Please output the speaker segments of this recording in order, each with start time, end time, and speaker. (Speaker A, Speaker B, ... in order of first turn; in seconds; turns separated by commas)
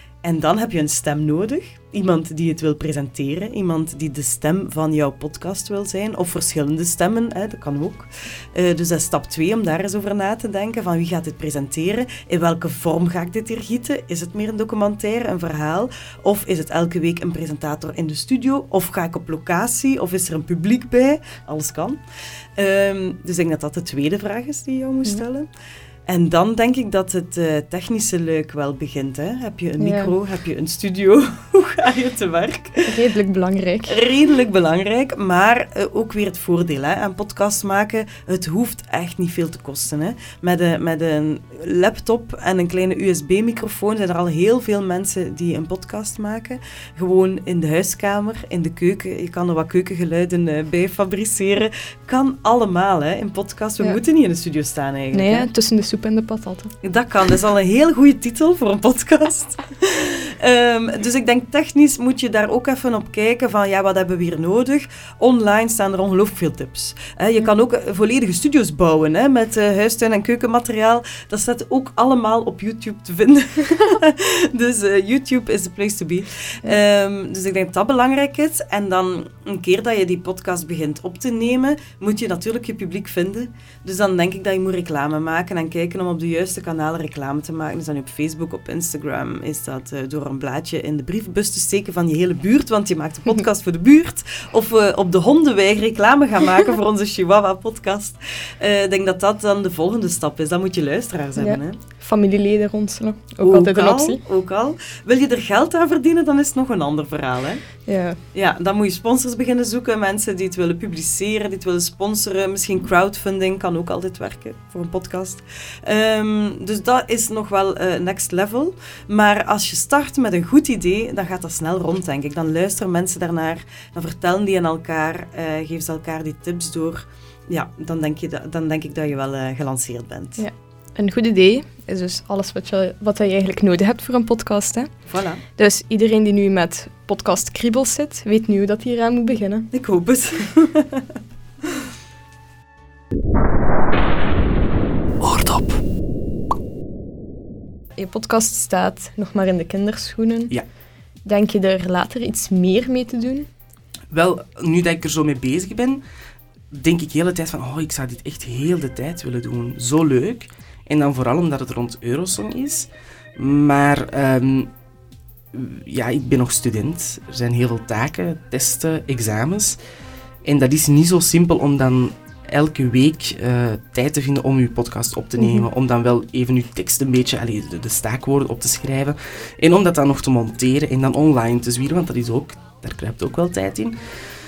Speaker A: 0.2-22.0, Speaker A: 22.6-25.5, Speaker A: 26.1-32.9, Speaker B: 29.8-30.1, Speaker B: 32.9-34.0, Speaker A: 33.9-55.5, Speaker B: 55.1-56.7, Speaker A: 56.8-101.8, Speaker B: 101.4-104.2, Speaker A: 103.4-107.6, Speaker B: 107.8-108.2, Speaker A: 108.3-130.4, Speaker B: 130.4-135.0, Speaker A: 135.1-135.4, Speaker B: 135.5-139.7, Speaker A: 139.7-141.0, Speaker B: 148.0-150.6, Speaker B: 151.2-153.5, Speaker C: 154.1-156.0, Speaker C: 156.7-164.7, Speaker C: 165.5-169.8, Speaker C: 170.4-183.9, Speaker B: 175.4-175.7